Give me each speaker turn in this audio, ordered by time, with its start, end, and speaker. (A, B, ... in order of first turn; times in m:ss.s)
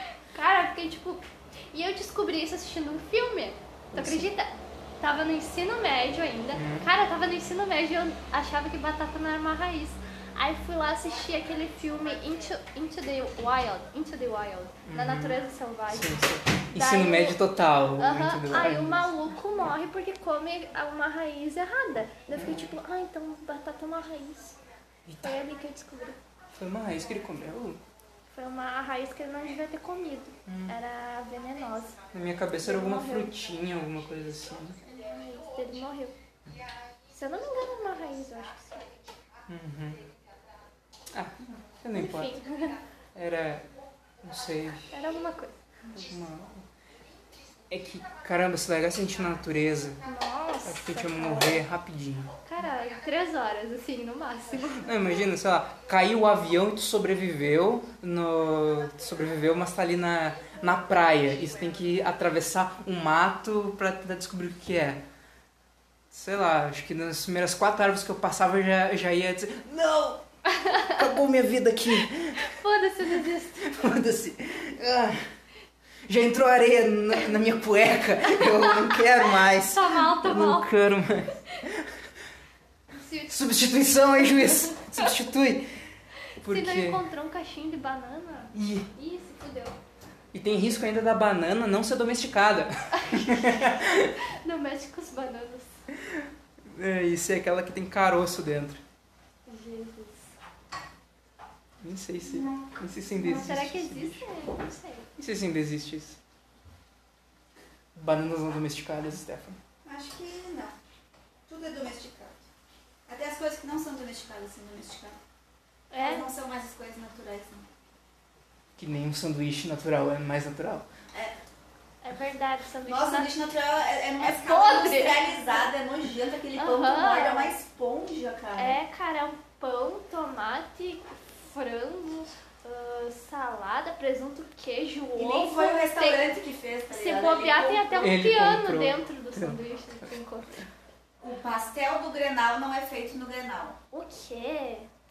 0:00.3-0:24.6 A
0:03.9-0:04.3 B
0:06.5-0:06.9 B
0:14.8-0:19.2 B
0:22.3-0:22.8 B
0:25.1-0:25.4 B
0:25.2-0:26.2 A
0:26.5-0:27.8 B
0:28.3-0:32.0 A
0:30.4-0:30.8 B
0:32.0-0:34.8 B
0:32.6-0:33.5 A
0:34.8-0:36.2 A
0:37.1-0:38.9 A
0:39.5-0:40.0 B
0:41.1-0:42.4 B
0:41.9-0:42.8 A
0:43.1-0:43.7 B
0:44.2-0:44.9 B
0:44.9-0:45.6 A
0:45.9-0:46.6 B
0:47.7-0:50.0 B
0:50.0-0:51.6 A
0:50.6-0:52.4 B
0:52.4-0:55.0 A
0:54.6-1:05.0 B
1:06.1-1:10.2 B
1:10.5-1:11.0 A
1:10.8-1:15.2 B
1:12.4-1:13.8 A
1:16.1-1:21.9 B
1:18.2-1:20.7 A
1:22.9-1:25.2 A
1:23.3-1:25.7 B
1:26.4-1:29.8 A
1:26.4-1:27.0 B
1:28.5-1:28.9 B
1:30.3-1:34.2 B
1:32.9-1:35.7 A
1:36.1-1:38.8 B
1:39.4-1:40.3 A
1:41.8-1:44.3 B
1:42.2-1:42.7 C
1:43.1-1:45.1 A
1:45.2-1:46.2 B
1:47.9-1:49.6 B
1:49.8-1:50.7 C
1:51.5-1:52.4 C
1:53.1-1:55.2 C
1:55.9-1:56.3 A
1:56.0-1:57.7 C
1:58.8-2:00.9 B
2:02.0-2:03.3 A
2:02.8-2:08.8 C
2:04.2-2:05.6 A
2:06.6-2:07.5 A
2:08.6-2:16.3 A
2:15.2-2:18.2 C
2:16.9-2:20.6 A
2:18.0-2:19.6 B
2:21.2-2:23.8 C
2:23.9-2:24.9 A